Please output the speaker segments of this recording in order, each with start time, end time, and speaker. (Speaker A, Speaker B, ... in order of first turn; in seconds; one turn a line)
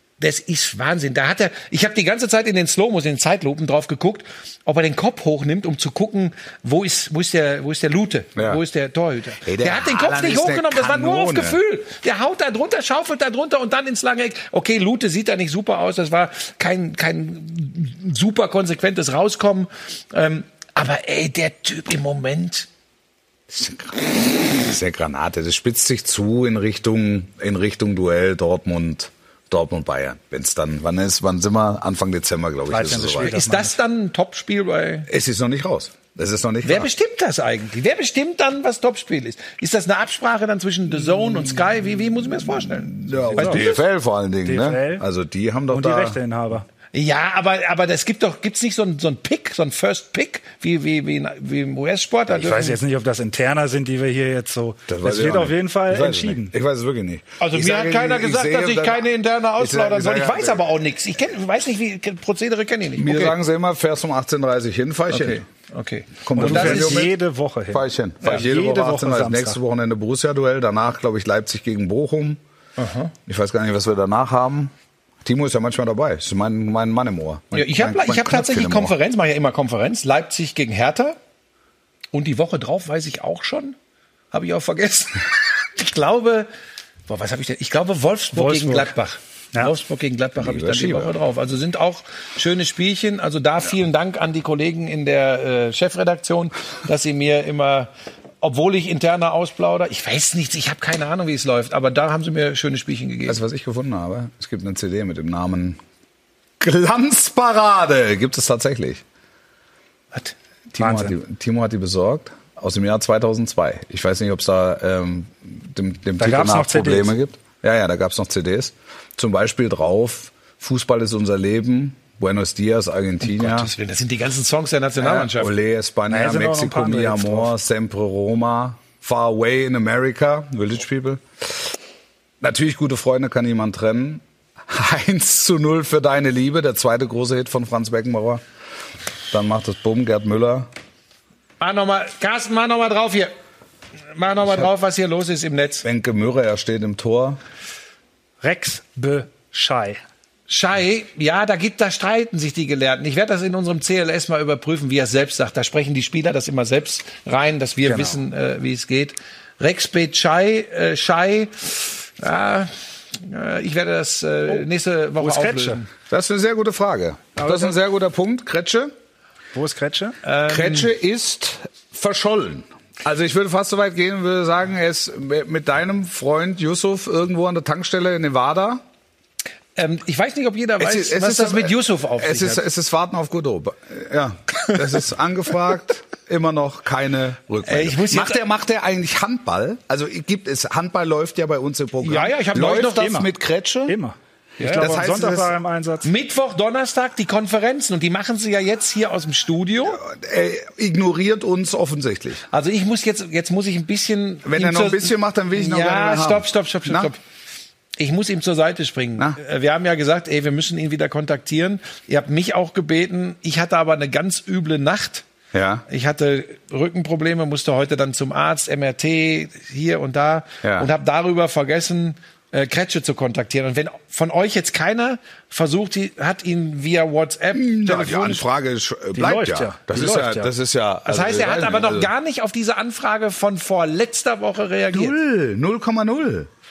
Speaker A: 0.2-22.7
Speaker B: 8.3-8.6
Speaker B: 9.4-11.6
Speaker B: 23.5-33.3
Speaker C: 32.7-33.8
Speaker A: 33.2-35.1
Speaker B: 35.1-36.9
Speaker A: 36.6-43.8
Speaker B: 42.9-46.2
Speaker C: 43.3-43.7
Speaker C: 44.5-45.0
Speaker C: 45.7-46.6
Speaker A: 46.9-52.8
Speaker C: 52.3-56.5
Speaker B: 54.9-59.1
Speaker A: 57.4-63.4
Speaker B: 59.6-60.6
Speaker B: 63.0-65.4
Speaker A: 65.1-67.0
Speaker B: 66.2-67.1
Speaker C: 66.3-69.6
Speaker B: 67.7-72.4
Speaker A: 72.8-73.1
Speaker B: 73.3-74.7
Speaker B: 75.2-78.9
Speaker A: 77.5-81.2
Speaker A: 82.1-83.8
Speaker A: 84.3-86.5
Speaker A: 87.1-103.4
Speaker C: 88.3-88.9
Speaker B: 90.4-91.2
Speaker B: 103.3-105.8
Speaker B: 106.6-109.0
Speaker B: 110.7-123.7
Speaker C: 110.8-111.1
Speaker C: 116.2-117.1
Speaker A: 123.2-125.5
Speaker B: 125.0-131.7
Speaker C: 126.1-127.5
Speaker B: 132.4-138.4
Speaker B: 139.3-140.7
Speaker A: 141.6-143.3
Speaker A: 144.1-145.8
Speaker B: 145.8-147.4
Speaker C: 148.4-150.0
Speaker A: 150.5-165.9
Speaker C: 157.8-158.2
Speaker C: 165.2-165.8
Speaker B: 166.1-168.9
Speaker C: 167.4-167.7
Speaker C: 169.5-170.2
Speaker A: 170.2-170.9
Speaker B: 170.5-178.8
Speaker A: 179.8-182.6
Speaker B: 180.8-194.0
Speaker A: 187.7-188.4
Speaker A: 192.0-193.2
Speaker C: 192.8-193.3
Speaker C: 193.9-196.1
Speaker A: 194.6-194.9
Speaker B: 194.8-195.5
Speaker A: 196.0-200.0
Speaker B: 199.8-202.4
Speaker A: 202.5-207.2
Speaker B: 204.4-207.1
Speaker A: 208.0-215.2
Speaker B: 215.5-215.8
Speaker A: 215.9-228.4
Speaker B: 220.6-220.9
Speaker B: 227.5-232.1
Speaker C: 229.1-230.5
Speaker A: 231.0-235.2
Speaker B: 234.9-236.5